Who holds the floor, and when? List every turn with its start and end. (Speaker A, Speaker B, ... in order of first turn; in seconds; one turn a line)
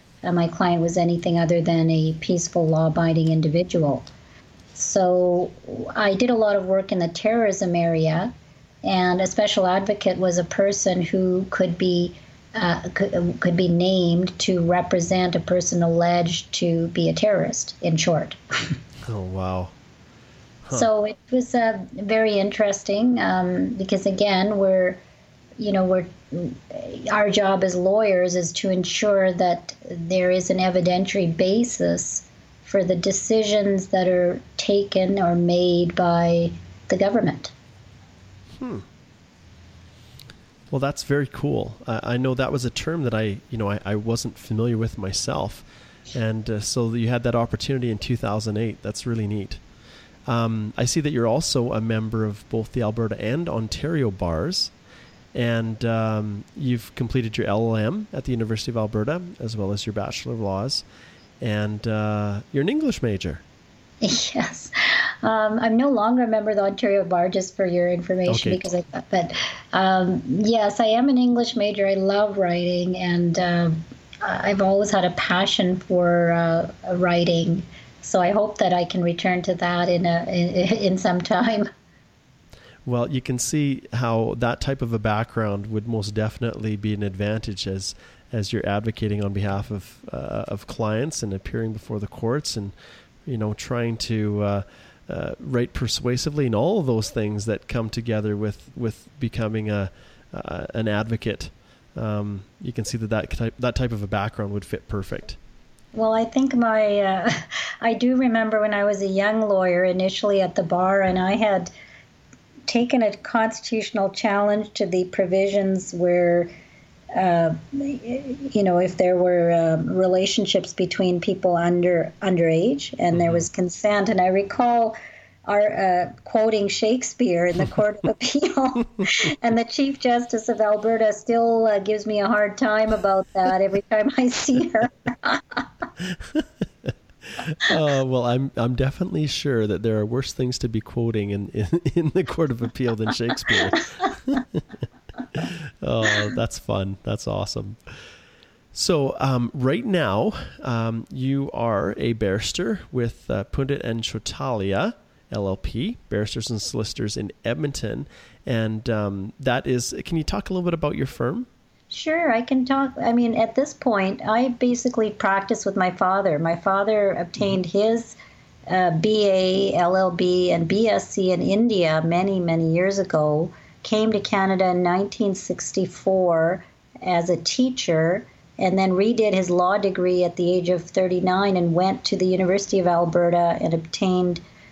Speaker A: 0.2-4.1
Speaker A: 4.8-8.3
Speaker A: 8.8-18.4
Speaker B: 19.1-19.7
Speaker A: 20.7-25.0
Speaker A: 25.6-37.5
Speaker B: 38.6-38.9
Speaker B: 40.7-49.6
Speaker B: 50.3-54.7
Speaker B: 55.3-60.8
Speaker B: 61.4-63.4
Speaker A: 64.0-81.7
Speaker B: 68.3-68.7
Speaker B: 82.9-92.7
Speaker B: 93.3-105.4
Speaker A: 105.9-111.7
Speaker A: 112.7-116.5
Speaker A: 117.1-135.6
Speaker B: 136.2-144.6
Speaker B: 145.3-147.8
Speaker B: 148.7-161.5
Speaker A: 161.9-168.2
Speaker A: 168.7-184.4